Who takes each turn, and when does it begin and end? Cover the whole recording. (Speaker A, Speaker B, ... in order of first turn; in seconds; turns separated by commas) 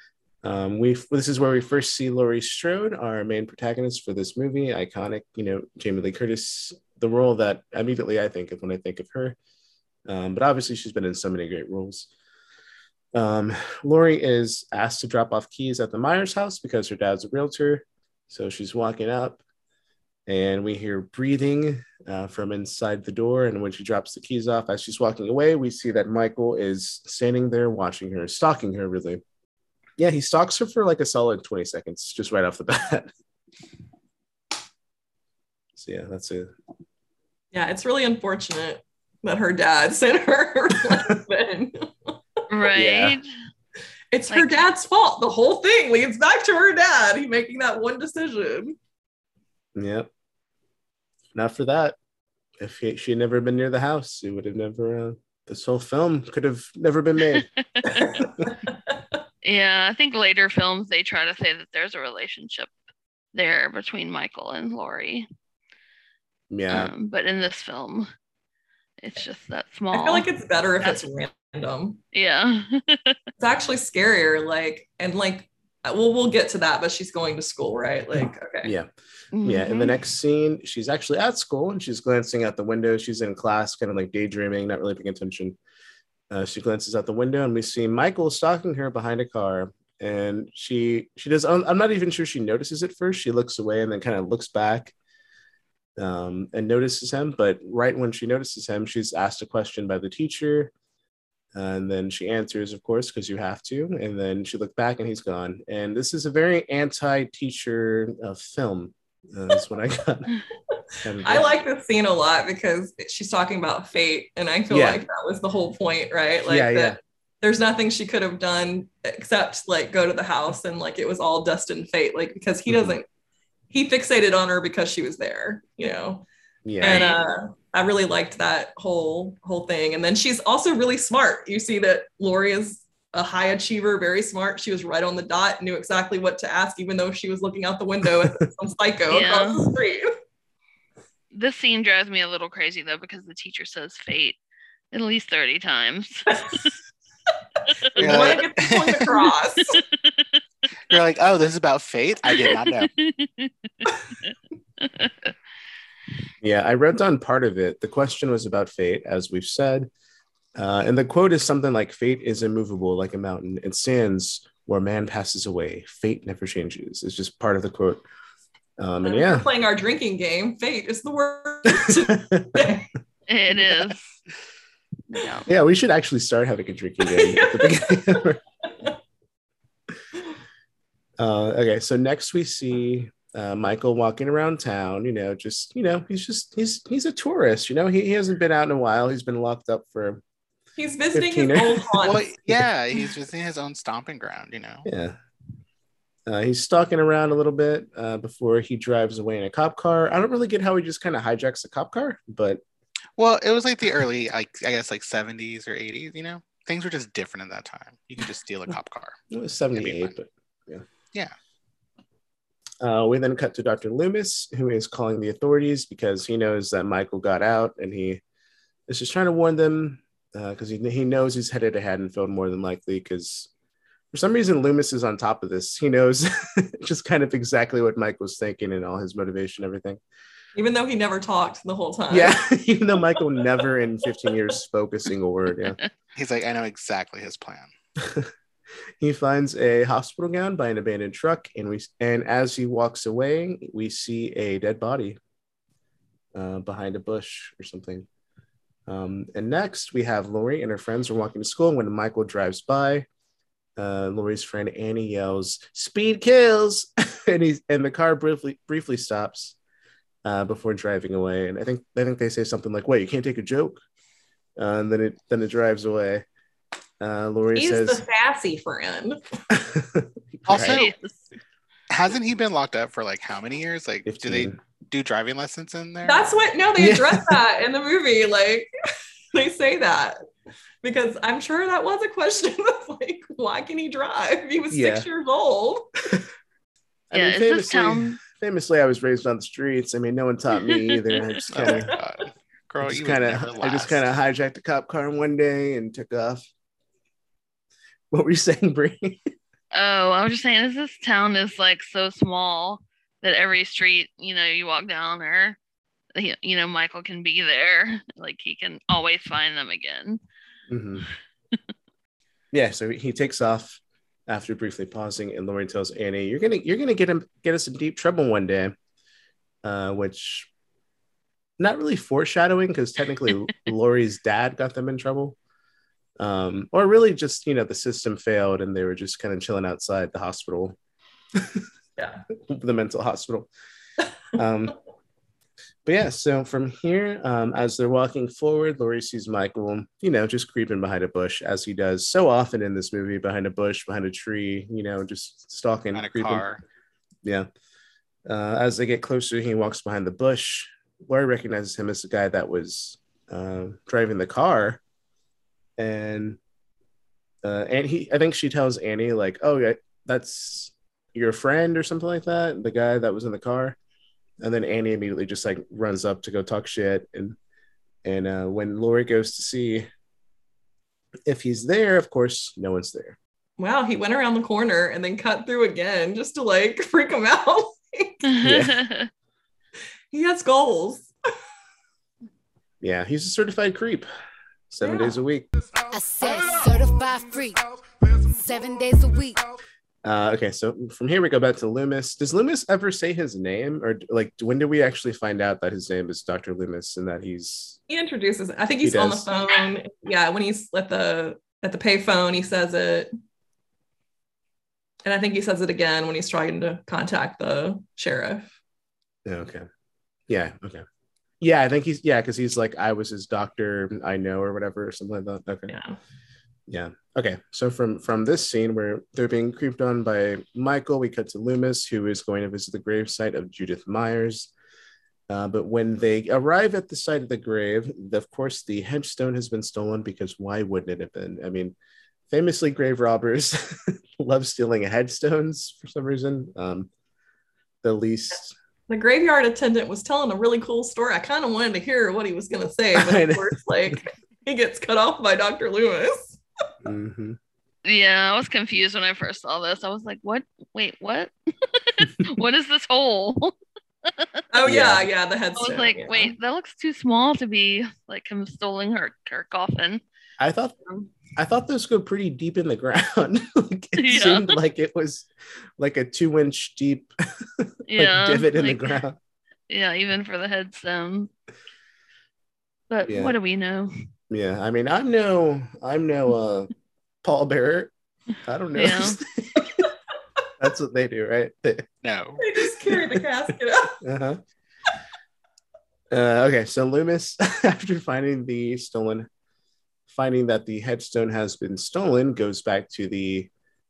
Speaker A: 0.4-9.4, Speaker A: 10.1-12.1, Speaker A: 13.1-19.4, Speaker A: 20.3-29.2, Speaker A: 30.0-33.1, Speaker A: 35.8-36.5, Speaker B: 37.5-42.2, Speaker C: 42.5-43.3, Speaker A: 42.7-43.2, Speaker B: 44.1-48.8, Speaker C: 44.3-44.6, Speaker A: 49.7-50.1, Speaker A: 51.3-52.0, Speaker A: 52.6-58.5, Speaker C: 59.4-62.7, Speaker C: 63.3-65.3, Speaker A: 66.5-66.9, Speaker C: 66.7-68.1, Speaker C: 69.0-70.3, Speaker B: 69.9-72.0, Speaker C: 72.1-73.2, Speaker B: 73.4-78.7, Speaker A: 78.6-78.9, Speaker C: 79.3-79.9, Speaker A: 79.4-85.6, Speaker A: 86.3-94.9, Speaker A: 96.0-100.7, Speaker A: 101.5-110.3, Speaker A: 111.0-111.5, Speaker B: 111.2-123.0, Speaker A: 114.7-115.1, Speaker A: 116.4-117.0, Speaker A: 122.7-123.0, Speaker B: 123.7-126.2, Speaker A: 126.6-127.2, Speaker B: 126.8-140.1, Speaker C: 126.8-127.2, Speaker C: 139.1-139.7, Speaker C: 141.3-144.4, Speaker C: 144.9-146.3, Speaker B: 147.9-149.8, Speaker D: 148.0-149.3, Speaker C: 149.8-150.2, Speaker D: 150.9-152.9, Speaker C: 152.5-155.3, Speaker A: 156.4-159.9, Speaker A: 160.6-168.0, Speaker A: 168.8-169.5, Speaker B: 169.0-172.9, Speaker A: 171.7-172.8, Speaker C: 173.3-174.1, Speaker C: 175.1-175.5, Speaker A: 175.5-178.4, Speaker B: 177.0-178.9, Speaker A: 181.2-190.2, Speaker B: 190.8-192.2, Speaker A: 191.1-192.6, Speaker D: 192.0-194.9, Speaker A: 194.8-195.2, Speaker A: 196.3-202.6, Speaker D: 203.2-209.2, Speaker A: 209.3-210.8, Speaker D: 209.7-210.1, Speaker A: 212.8-218.2, Speaker A: 218.9-223.5, Speaker A: 224.1-230.0, Speaker B: 230.6-232.4, Speaker A: 232.1-235.8, Speaker D: 236.1-237.7, Speaker A: 238.0-238.3, Speaker A: 239.0-245.2, Speaker A: 246.3-248.1, Speaker A: 248.9-253.1, Speaker A: 253.8-259.6, Speaker A: 260.2-263.8, Speaker A: 264.6-266.2, Speaker A: 267.0-268.0, Speaker B: 267.5-269.2, Speaker A: 269.5-270.8, Speaker D: 270.5-270.9, Speaker C: 270.5-271.0, Speaker D: 271.9-276.3, Speaker A: 274.1-274.6, Speaker B: 276.0-278.7, Speaker A: 276.8-277.4, Speaker B: 279.3-280.2, Speaker B: 280.8-285.9, Speaker A: 284.7-285.1, Speaker A: 287.1-292.0, Speaker C: 287.1-288.2, Speaker C: 290.6-291.2, Speaker D: 291.5-294.0, Speaker A: 292.8-296.4, Speaker A: 298.1-299.2, Speaker C: 299.7-305.6, Speaker C: 306.1-310.2, Speaker A: 310.7-311.1, Speaker A: 312.5-318.7, Speaker A: 319.6-320.5, Speaker A: 321.6-325.4, Speaker A: 326.2-330.8, Speaker A: 331.4-331.6, Speaker B: 332.0-332.2, Speaker A: 332.5-333.5, Speaker A: 334.3-334.8, Speaker A: 335.8-346.4, Speaker D: 345.9-346.6, Speaker A: 348.3-354.8, Speaker A: 355.8-356.4, Speaker A: 357.4-363.8, Speaker A: 364.4-367.4, Speaker A: 368.0-369.9, Speaker A: 371.2-373.2, Speaker B: 373.6-378.2, Speaker C: 378.2-379.1, Speaker A: 378.4-378.8, Speaker B: 380.1-381.1, Speaker A: 382.8-384.1, Speaker A: 384.7-385.5, Speaker B: 384.8-385.1, Speaker E: 385.9-387.6, Speaker E: 388.2-389.4, Speaker A: 390.0-397.8, Speaker B: 397.9-403.1, Speaker A: 398.8-399.3, Speaker B: 405.0-408.5, Speaker A: 409.2-409.7, Speaker A: 410.3-410.8, Speaker A: 411.4-415.7, Speaker B: 415.7-416.0, Speaker A: 416.7-424.5, Speaker A: 425.3-431.8, Speaker A: 432.3-436.9, Speaker A: 437.8-438.5, Speaker B: 438.9-446.4, Speaker A: 442.9-444.0, Speaker A: 446.8-447.4, Speaker C: 447.8-453.5, Speaker B: 454.5-456.3, Speaker A: 454.6-455.1, Speaker C: 455.6-460.0, Speaker A: 460.4-460.8, Speaker C: 460.9-461.1, Speaker A: 461.3-469.2, Speaker C: 464.0-464.5, Speaker C: 467.9-468.9, Speaker C: 469.7-471.3, Speaker C: 472.9-473.9, Speaker A: 473.1-473.4, Speaker A: 474.3-476.7, Speaker A: 477.2-477.9, Speaker A: 478.4-479.8, Speaker C: 478.8-479.2, Speaker A: 480.6-481.9, Speaker D: 482.0-482.4, Speaker B: 482.4-484.0, Speaker A: 482.9-483.2, Speaker A: 484.0-484.4, Speaker A: 486.1-489.3, Speaker A: 490.1-493.5